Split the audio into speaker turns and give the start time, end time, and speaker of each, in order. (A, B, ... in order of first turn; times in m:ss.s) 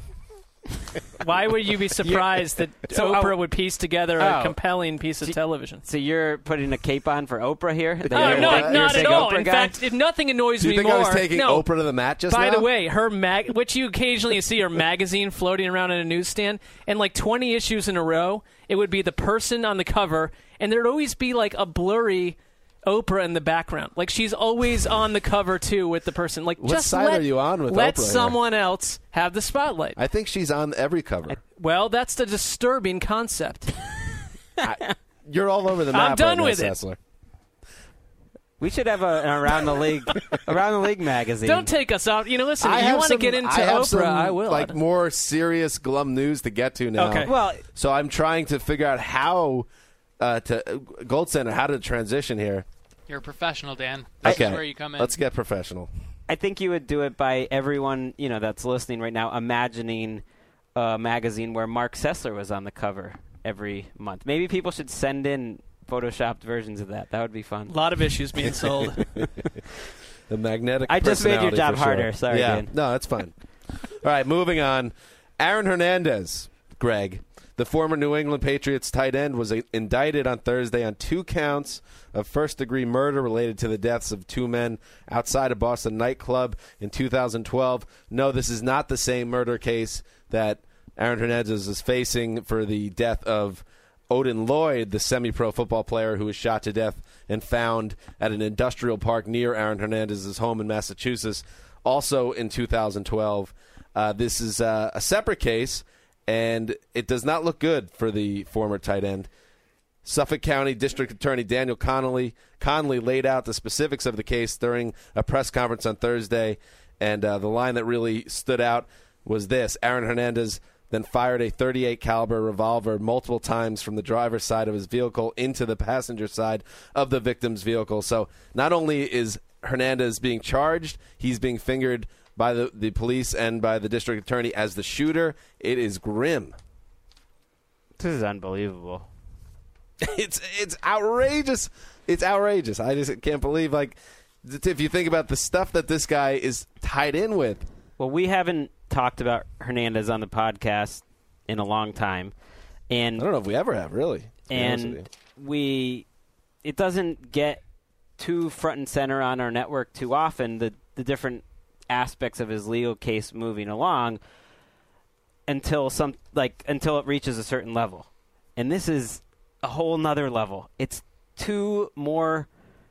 0:01.2-0:05.8 A
0:02.0-0:03.4 B
0:04.2-0:04.6 B
0:05.2-0:09.8 B
0:08.0-0:09.3 C
0:08.1-0:11.7 A
0:10.6-0:12.7 C
0:12.3-0:30.0 A
0:26.6-0:28.4 C
0:30.0-0:31.4 C
0:31.6-0:33.8 A
0:34.6-0:37.0 C
0:34.6-0:34.9 B
0:35.9-0:36.8 A
0:38.6-0:41.7 B
0:41.4-0:44.8 A
0:42.6-0:49.7 C
0:47.0-0:47.3 A
0:47.2-0:47.6 B
0:50.2-0:52.7 C
0:53.1-0:55.2 D
0:54.2-0:55.9 C
0:56.3-1:00.2 B
1:00.8-1:07.7 B
1:07.7-1:09.1 A
1:10.3-1:13.3 C
1:10.9-1:12.7 B
1:13.9-1:49.3 C
1:50.0-2:16.6 C
2:18.0-2:19.1 B
2:20.0-2:27.7 C
2:28.0-2:32.3 B
2:32.9-2:33.3 B
2:33.2-2:35.1 C
2:34.5-2:36.0 B
2:36.6-2:37.6 B
2:38.2-2:44.2 B
2:45.5-2:52.5 B